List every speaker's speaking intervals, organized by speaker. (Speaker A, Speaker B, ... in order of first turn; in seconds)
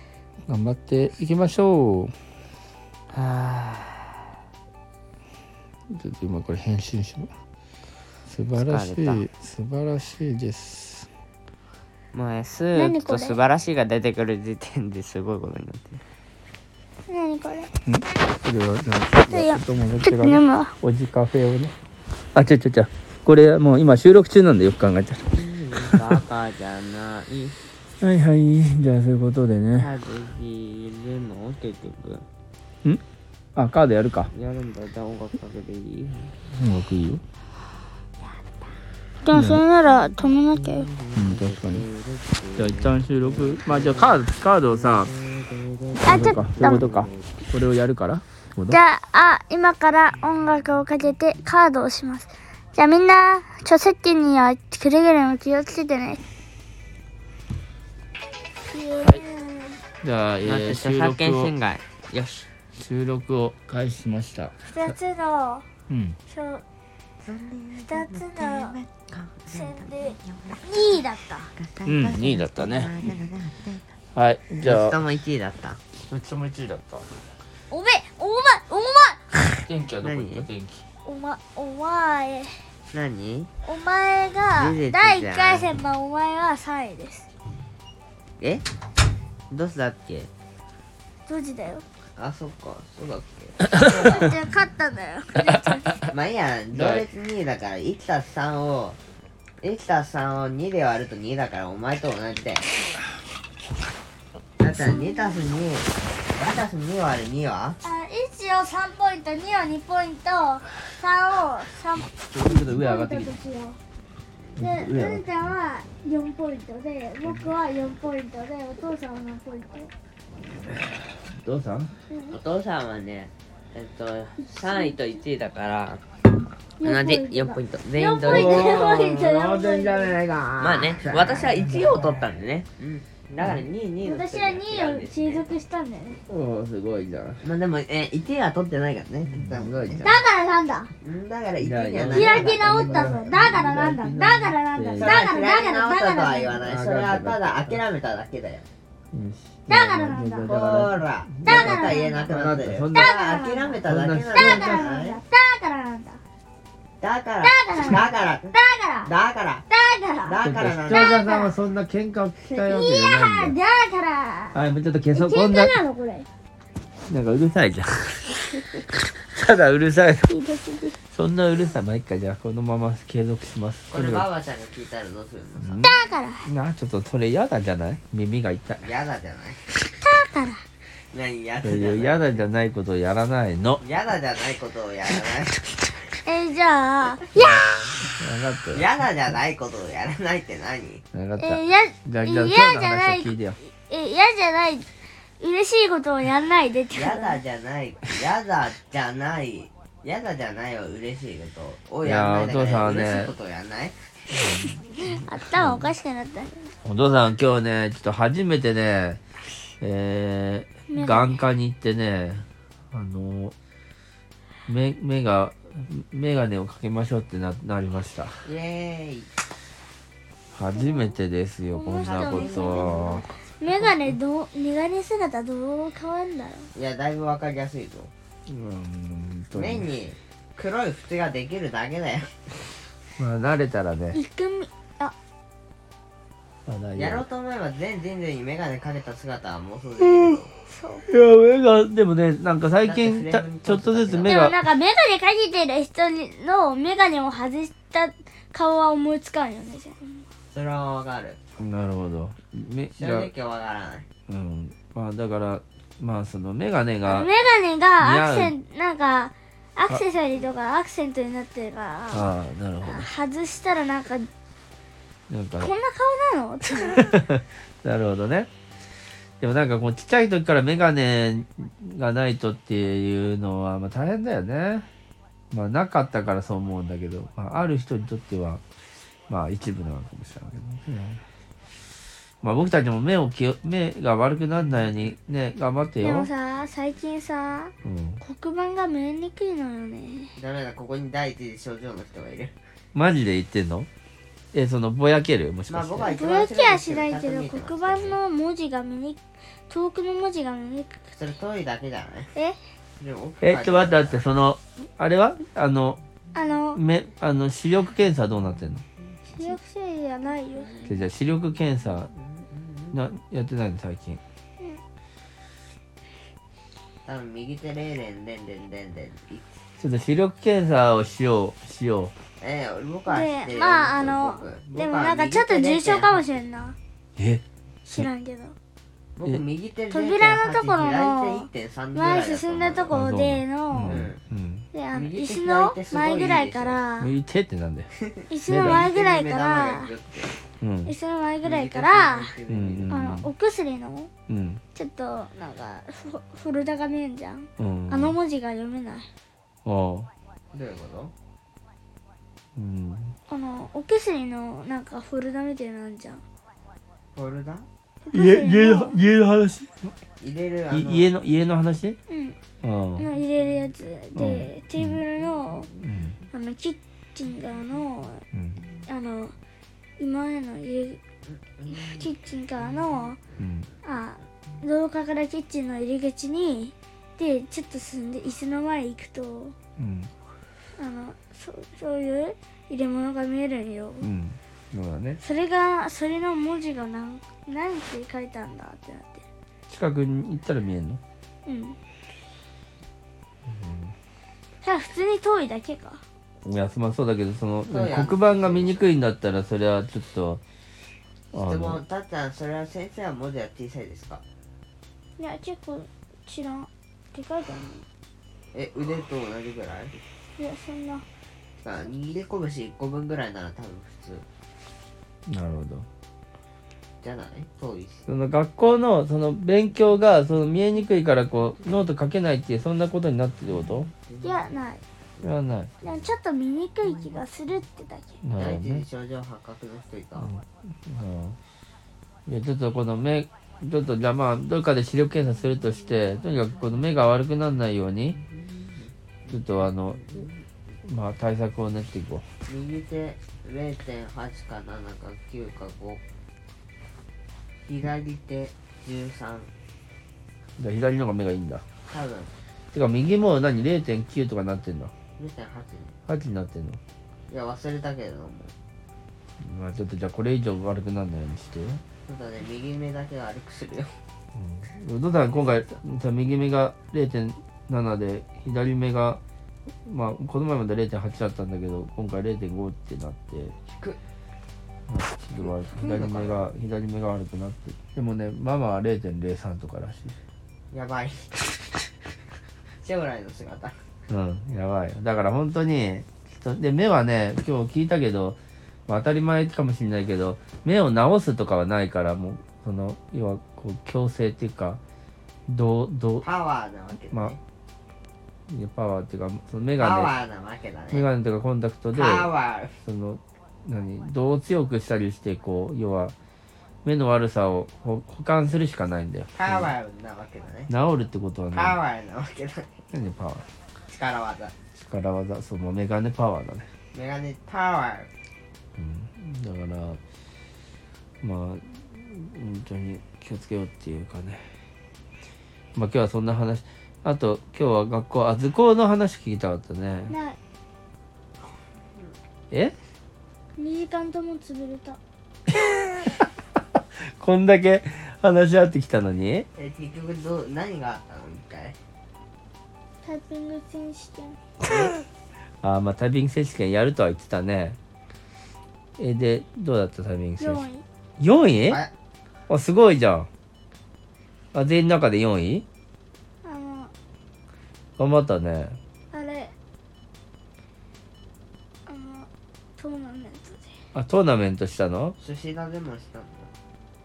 Speaker A: 0.5-2.1, 5.9-7.3, 8.3-11.1, 17.9-21.7, 22.3-26.2, 28.0-29.9, 33.5-34.3, 36.5-37.2, 39.3-39.6, 41.1-41.8, 42.5-45.1, 46.0-48.8, 60.0-61.5, 62.8-64.6, 65.9-66.2, 71.9-73.1, 74.1-75.0, 76.0-77.1, 79.6-80.8, 93.8-94.2, 96.7-97.0, 112.3-113.3, 114.5-115.3, 117.2-117.5, 121.2-121.9, 128.3-132.2, 133.4-133.6, 136.3-137.4, 139.3-140.1, 141.6-145.2, 146.6-147.8, 149.1-153.1, 153.8-154.9, 160.4-163.6, 164.5-165.7, 167.1-170.3, 171.1-174.2, 175.6-178.8, 181.6-183.8, 188.0-188.9, 191.1-193.6, 202.0-203.3, 204.3-204.8, 205.5-205.9, 206.8-209.2, 209.8-213.5, 214.7-218.4, 220.5-223.2, 228.5-229.9, 233.2-234.2, 236.7-237.2, 240.0-240.4, 241.1-244.6, 251.6-253.3, 254.3-257.3, 258.0-258.5, 262.1-263.1, 265.3-265.7, 266.8-268.5, 269.4-274.9, 275.5-278.6, 279.3-281.2, 282.4-286.3, 287.8-288.2, 292.9-293.9, 294.5-296.1, 303.4-306.0, 306.7-308.8, 310.8-312.1, 312.9-314.2, 319.8-322.1, 327.2-328.1, 332.9-334.7, 337.0-337.9, 338.5-338.9, 340.6-340.9, 342.5-343.3, 344.3-344.6, 347.6-348.2, 349.6-350.1, 352.6-353.2, 358.1-359.9, 360.7-362.0, 362.6-363.1, 364.1-365.0, 365.8-366.1, 368.3-368.6, 373.4-373.7, 379.8-380.1, 384.0-385.2, 389.7-391.0, 393.4-393.9, 396.4-400.4, 401.3-401.8, 415.3-415.9, 418.1-423.9, 425.2-425.8, 428.2-428.8, 430.2-431.4, 432.2-438.2, 439.3-440.2, 440.8-442.2, 450.6-451.6, 452.7-454.9, 456.1-456.8, 459.4-461.8, 464.3-469.2, 469.8-473.5, 474.9-480.2, 484.1-494.8, 495.5-496.2, 498.5-500.1, 500.9-502.3, 502.8-506.1, 506.8-509.7, 510.7-511.8, 512.9-513.5, 514.8-516.7, 518.8-520.0, 521.2-524.5, 525.7-530.1, 537.0-539.5, 545.6-547.8, 549.0-550.6, 551.2-551.8, 552.5-553.3, 554.5-555.6, 558.0-558.8, 563.9-565.1
Speaker B: 3.1-4.2, 8.5-9.2, 12.1-16.0, 25.3-27.6, 29.7-32.2, 34.3-36.3, 39.9-47.3, 60.4-62.5, 67.2-70.6, 71.5-73.8, 74.6-75.8, 80.0-80.5, 82.9-83.5, 84.5-85.7, 88.4-88.6, 89.5-90.3, 92.2-94.3, 96.1-99.0, 99.6-102.7, 104.6-107.8, 122.3-126.0, 126.8-128.8, 130.6-135.5, 137.4-140.2, 141.0-143.8, 144.9-148.6, 150.4-155.2, 157.0-158.5, 159.1-159.6, 160.3-161.2, 173.9-175.8, 178.8-179.6, 181.1-182.4, 183.8-185.6, 188.7-191.0, 196.9-204.0, 218.4-219.3, 221.9-224.1, 226.7-228.1, 229.5-232.5, 236.9-240.5, 242.8-244.5, 250.5-251.4, 252.9-254.1, 290.4-292.5, 295.7-298.2, 301.1-302.3, 303.0-304.2, 312.0-312.9, 317.0-319.5, 322.4-326.3, 329.1-332.9, 333.8-334.2, 334.9-336.8, 338.0-340.3, 341.4-342.9, 350.5-351.1, 357.1-357.6, 360.2-361.1, 371.6-372.1, 397.7-398.8, 401.3-404.2, 408.5-410.0, 411.6-414.2, 417.0-418.1, 428.4-430.3, 438.6-440.3, 442.5-446.0, 447.7-449.5, 451.9-452.3, 455.2-455.9, 457.3-458.5, 462.1-463.9, 473.7-474.0, 475.4-476.5, 480.7-481.6, 482.8-483.8, 496.2-497.4, 499.8-501.1, 501.9-502.8, 509.3-510.7, 511.5-512.7, 513.9-514.5, 516.9-518.1, 539.6-541.8, 565.2-566.5
Speaker C: 12.7-13.4, 17.1-17.7, 19.3-20.7, 39.2-40.9, 46.0-46.9, 48.7-56.2, 58.6-59.8, 64.6-65.7, 66.3-66.6, 67.8-68.8, 69.5-71.5, 77.7-79.3, 81.0-82.5, 83.6-87.3, 91.3-91.8, 93.8-96.0, 104.8-105.4, 107.8-113.8, 114.5-119.9, 122.1-122.4, 124.4-125.0, 126.8-130.2, 134.0-136.2, 140.0-140.9, 142.1-146.6, 149.7-150.5, 151.4-152.2, 152.9-153.8, 154.3-156.2, 157.4-159.1, 159.7-161.6, 162.5-164.6, 165.1-166.3, 170.3-171.0, 175.8-176.5, 180.0-180.6, 186.2-187.7, 191.4-194.9, 195.4-197.4, 205.0-206.7, 210.9-211.4, 220.7-221.2, 221.7-226.7, 234.1-235.1, 240.7-241.1, 244.2-250.2, 257.0-262.3, 262.8-264.3, 265.6-267.2, 286.0-290.3, 296.1-301.0, 306.3-306.8, 309.3-310.9, 323.1-326.8, 327.9-328.6, 329.9-334.1, 334.7-337.1, 338.3-339.9, 340.8-342.3, 342.9-344.1, 344.7-349.1, 353.3-356.2, 358.1-359.0, 362.1-362.4, 363.0-365.7, 366.3-368.2, 368.8-369.3, 370.0-371.0, 371.6-373.2, 373.8-379.5, 380.8-384.1, 385.2-389.2, 391.4-391.8, 394.6-396.0, 405.2-407.8, 410.4-411.1, 424.2-424.8, 425.8-428.1, 530.1-530.4, 533.6-535.0, 543.0-544.4, 550.4-550.8, 556.4-556.9, 559.1-559.5, 561.9-563.7